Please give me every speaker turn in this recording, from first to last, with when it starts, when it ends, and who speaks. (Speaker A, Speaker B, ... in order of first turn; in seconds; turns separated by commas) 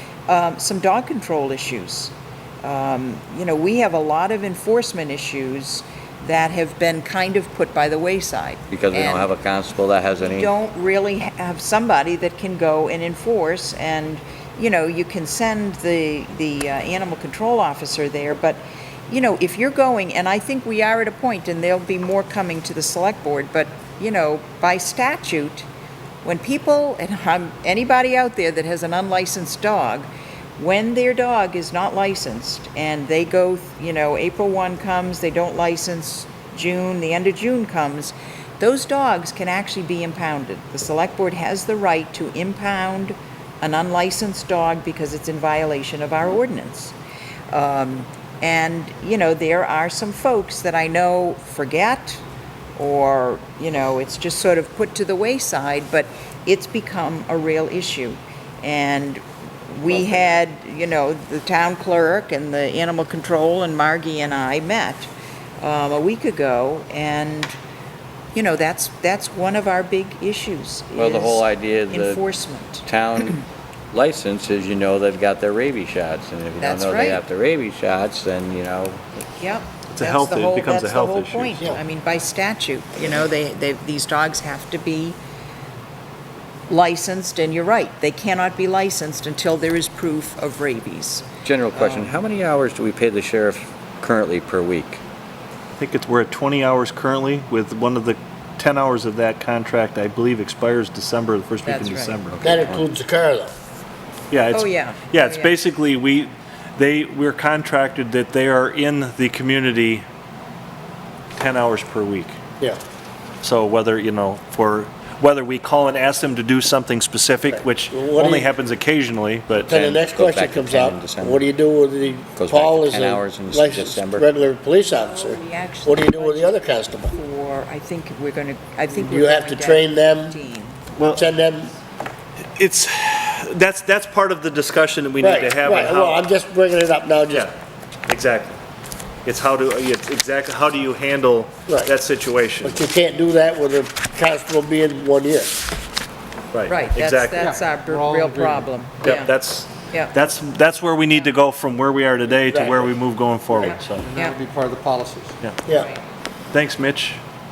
Speaker A: 0.3-9.3, Speaker B: 8.7-10.5, Speaker A: 10.2-25.7, Speaker A: 26.2-46.9, Speaker A: 47.5-52.2, Speaker A: 52.8-65.1, Speaker A: 65.6-67.5, Speaker A: 68.3-72.8, Speaker B: 70.9-72.2, Speaker B: 72.8-79.0, Speaker A: 76.6-77.2, Speaker A: 79.2-85.2, Speaker C: 79.9-81.7, Speaker A: 86.7-92.2, Speaker B: 91.4-95.0, Speaker C: 95.8-102.7, Speaker A: 101.6-102.2, Speaker B: 102.3-102.8, Speaker D: 102.4-103.5, Speaker C: 104.3-110.0, Speaker A: 104.5-105.5, Speaker C: 111.4-112.4, Speaker C: 113.4-119.8, Speaker D: 117.5-118.5, Speaker D: 119.7-127.1, Speaker B: 119.7-121.5, Speaker B: 122.3-124.3, Speaker A: 124.9-130.8, Speaker D: 129.0-130.4, Speaker C: 131.0-131.3, Speaker D: 131.1-131.7, Speaker C: 132.6-136.2, Speaker D: 135.2-137.5, Speaker C: 138.1-138.6, Speaker C: 139.2-142.9, Speaker D: 142.6-145.6, Speaker C: 146.5-147.5, Speaker A: 146.7-149.3, Speaker E: 147.9-148.6, Speaker C: 149.0-154.1, Speaker A: 149.9-150.2, Speaker D: 152.4-152.9, Speaker A: 153.6-154.4, Speaker E: 154.0-155.3, Speaker A: 155.7-156.0, Speaker C: 156.5-157.2